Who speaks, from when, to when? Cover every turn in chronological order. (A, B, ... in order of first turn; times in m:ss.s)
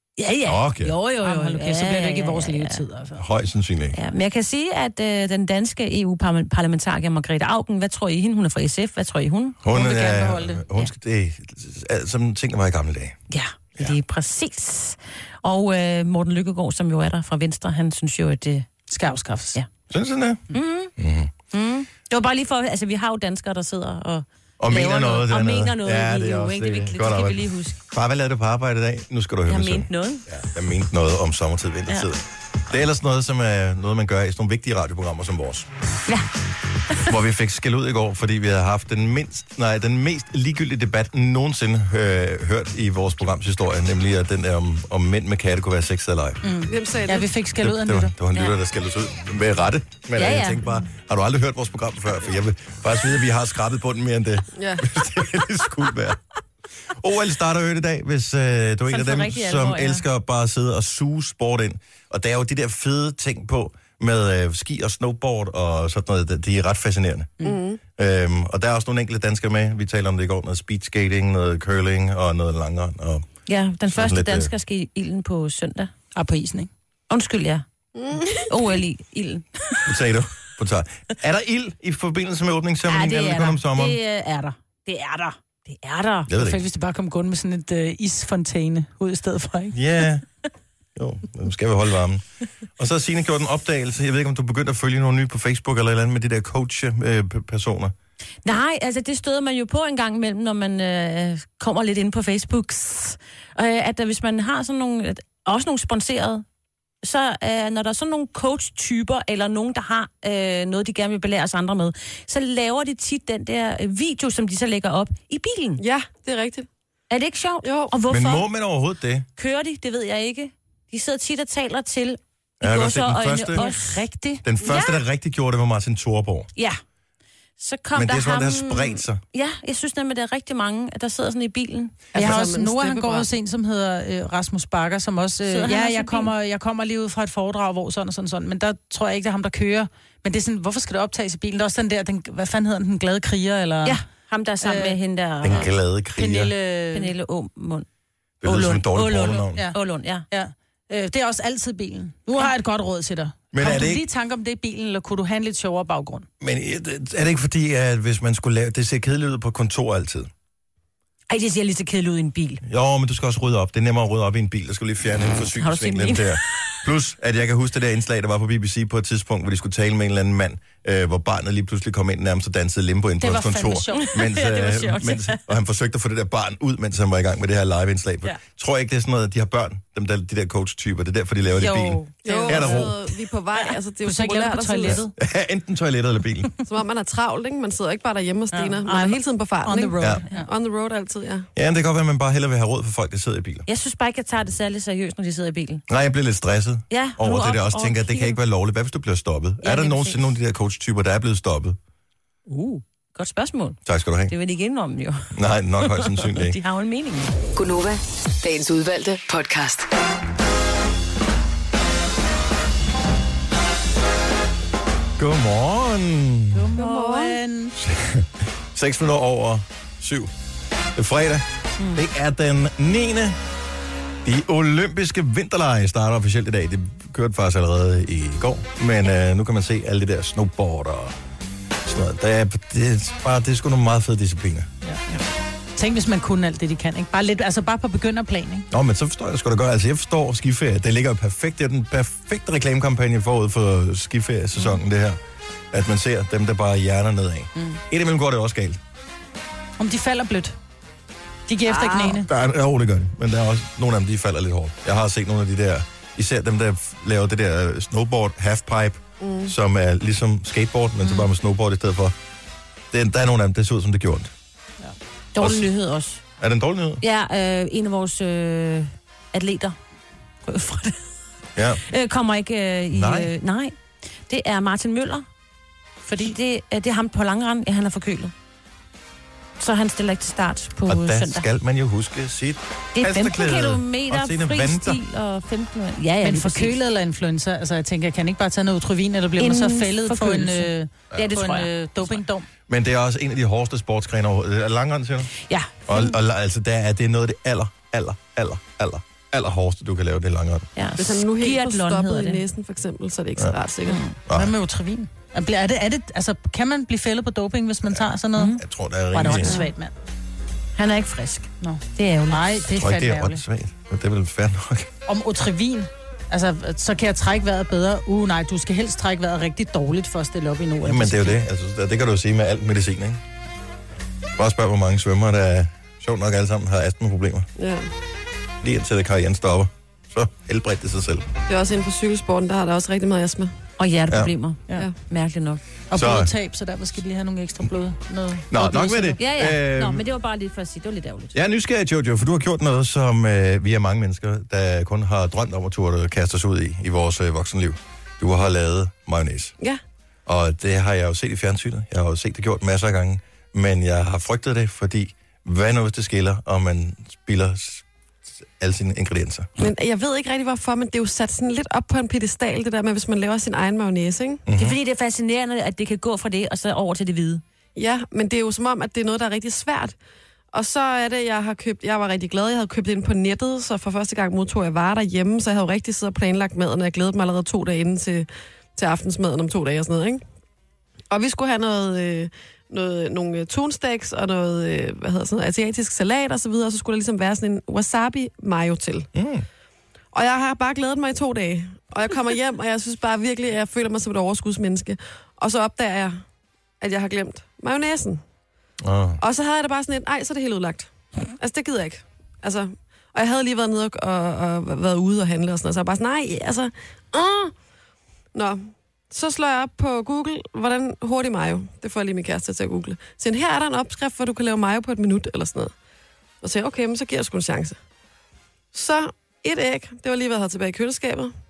0:00.2-0:02.8 A
0:00.5-0:00.9 B
0:01.2-0:03.2 C
0:03.2-0:04.0 B
0:03.9-0:09.6 A
0:09.6-0:13.2 B
0:09.7-0:10.7 C
0:13.3-0:18.7 A
0:18.9-0:19.6 C
0:19.9-0:21.3 B
0:20.5-0:20.9 A
0:21.5-0:27.8 A
0:24.6-0:35.7 B
0:29.5-0:30.2 A
0:37.0-0:46.6 B
0:46.4-0:48.1 C
0:46.7-0:47.3 D
0:47.6-0:56.2 B
0:50.2-0:50.6 A
0:54.6-0:54.9 D
0:57.0-1:07.4 B
0:58.9-1:00.0 A
1:07.4-1:07.8 D
1:08.0-1:13.2 B
1:13.5-1:15.9 A
1:13.9-1:14.5 B
1:16.2-1:16.7 C
1:17.1-1:17.6 A
1:18.0-1:18.5 D
1:18.4-1:19.9 A
1:19.9-1:24.0 B
1:22.9-1:26.3 A
1:26.3-1:26.6 B
1:26.3-1:29.8 C
1:29.7-1:30.3 B
1:31.0-1:32.2 B
1:32.8-1:37.9 B
1:38.4-1:46.4 A
1:47.0-1:55.8 A
1:55.8-1:56.7 D
1:57.1-1:58.4 A
1:57.6-1:57.9 D
1:58.1-1:59.3 B
1:59.4-2:04.0 A
2:02.6-2:03.6 B
2:03.6-2:04.4 C
2:04.4-2:06.5 B
2:04.6-2:05.0 A
2:07.6-2:12.0 A
2:07.9-2:09.2 B
2:12.1-2:13.3 D
2:12.1-2:24.0 C
2:15.5-2:16.3 A
2:23.8-2:25.7 A
2:24.6-2:25.0 C
2:25.4-2:26.5 B
2:26.2-2:27.1 C
2:26.9-2:27.9 A
2:28.4-2:29.6 B
2:28.4-2:30.2 A
2:30.3-2:36.3 C
2:33.5-2:34.0 B
2:36.4-2:40.3 B
2:41.3-2:42.6 A
2:42.6-3:03.0 B
2:45.5-2:46.8 A
2:53.2-2:54.2 C
2:53.9-2:55.4 A
3:01.6-3:02.9 C
3:02.2-3:05.0 D
3:04.0-3:05.1 C
3:04.9-3:06.5 B
3:06.7-3:11.5 D
3:08.5-3:09.2 A
3:09.6-3:10.5 C
3:11.6-3:13.7 B
3:13.7-3:15.8 A
3:15.9-3:21.8 B
3:16.9-3:18.4 A
3:19.6-3:20.2 A
3:22.5-3:27.3 A
3:23.9-3:24.3 B
3:25.3-3:26.6 B
3:27.6-3:29.9 E
3:35.2-3:36.7 B
3:36.5-3:37.8 C
3:36.8-3:37.4 D
3:37.8-3:40.3 B
3:41.0-3:43.4 B
3:44.2-3:51.2 B
3:51.8-3:54.7 B
3:55.8-3:58.7 C
3:58.7-4:05.2 B
4:05.7-4:08.8 B
4:09.8-4:10.6 C
4:11.5-4:12.3 C
4:11.7-4:12.1 D
4:12.1-4:22.2 B
4:19.2-4:19.5 D
4:22.9-4:24.3 B
4:25.3-4:26.2 A
4:25.4-4:25.7 B
4:26.4-4:27.0 B
4:27.0-4:29.8 A
4:30.4-4:31.0 A
4:31.6-4:31.8 B
4:31.8-4:33.8 A
4:32.9-4:33.3 B
4:34.3-4:35.3 A
4:36.1-4:36.3 C
4:36.2-4:38.3 A
4:39.6-4:41.5 A
4:40.9-4:45.0 B
4:43.0-4:46.8 A
4:46.2-4:52.5 C
4:49.4-4:52.2 A
4:52.7-4:55.3 B
4:55.5-4:56.2 A
4:55.9-5:00.7 B
5:00.8-5:02.4 A
5:01.0-5:04.0 D
5:03.9-5:04.2 A
5:04.3-5:04.5 B
5:04.3-5:08.6 C
5:08.6-5:09.6 B
5:09.1-5:09.9 C
5:09.4-5:09.6 A
5:10.8-5:12.6 A
5:11.6-5:13.4 C
5:12.7-5:14.9 B
5:15.1-5:21.4 C
5:20.8-5:23.2 B
5:24.4-5:27.5 B
5:27.6-5:27.9 D
5:28.6-5:31.3 B
5:31.5-5:33.5 D
5:33.8-5:35.6 A
5:35.9-5:39.2 C
5:36.0-5:36.3 B
5:38.5-5:40.0 B
5:39.2-5:41.3 A
5:41.3-5:49.6 B
5:50.3-5:57.8 B
5:58.6-5:59.6 B
5:59.6-6:04.4 D
6:04.5-6:04.8 B
6:04.6-6:07.4 A
6:07.8-6:10.0 D
6:10.5-6:20.2 D
6:21.1-6:29.1 D
6:29.2-6:29.5 B
6:30.1-6:36.2 D
6:36.8-6:38.2 D
6:38.8-6:39.2 B
6:39.2-6:47.5 D
6:48.3-6:55.7 D
6:56.4-6:57.8 D
6:58.7-7:01.3 D